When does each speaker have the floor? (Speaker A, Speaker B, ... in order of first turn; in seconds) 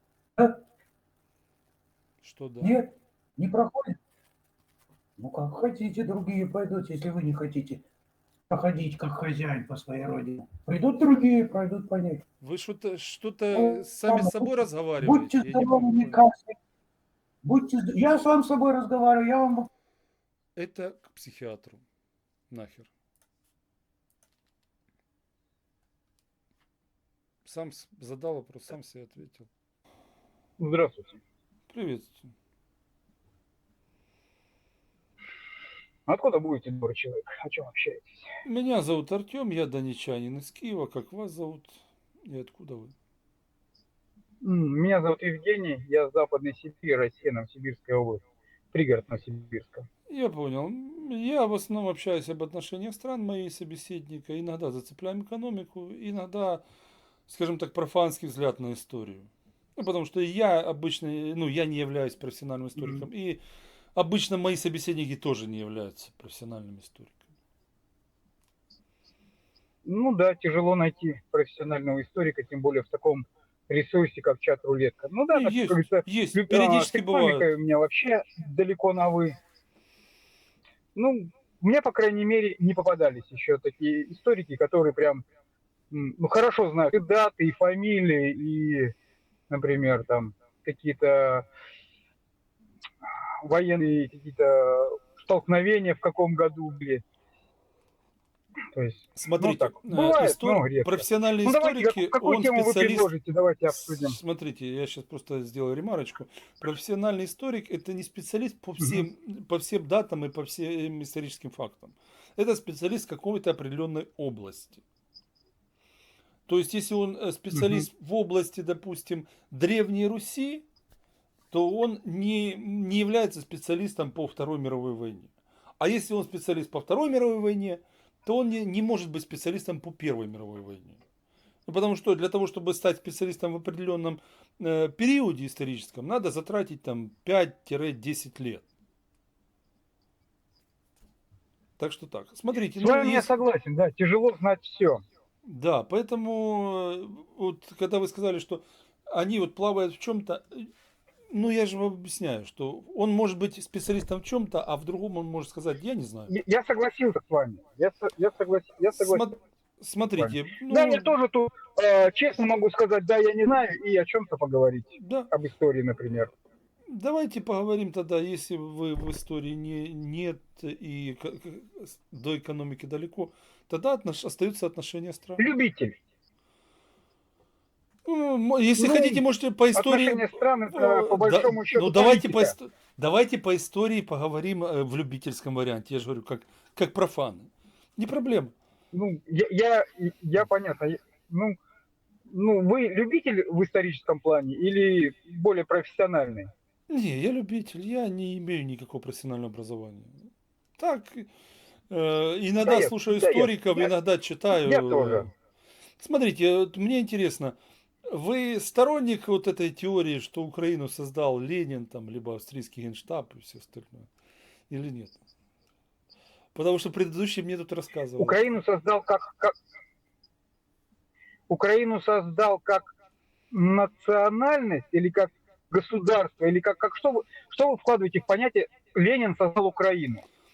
Speaker A: 2.2-2.8, 12.4-16.2, 20.6-21.8, 22.5-22.9, 27.4-29.5, 31.7-32.3, 38.4-42.9, 50.1-56.6, 57.3-63.4, 64.0-67.2, 75.3-77.5, 99.2-103.1, 103.7-114.8, 116.5-120.6, 121.5-131.0, 131.7-138.7, 141.8-143.3, 145.4-150.7, 151.3-156.3, 159.0-161.1, 165.0-165.3, 166.9-175.4, 178.0-188.5, 196.9-201.3, 201.9-205.3, 206.0-214.1, 214.7-215.2, 216.5-218.4
Speaker B: 2.6-4.0, 5.2-7.8, 8.5-12.2, 13.5-16.6, 17.4-19.7
Speaker C: 30.6-31.2, 36.1-38.2, 44.4-48.2, 48.7-49.9, 69.8-79.4, 81.0-85.2, 85.9-88.9, 89.5-91.5, 93.4-97.0, 98.7-104.2, 117.5-117.8, 142.8-145.0, 156.3-159.2, 160.2-166.3, 175.4-175.9, 178.8-179.2, 179.7-182.5, 188.9-191.6, 192.3-196.5, 202.6-203.9, 204.6-205.3, 218.2-219.5, 221.5-222.9, 223.5-230.2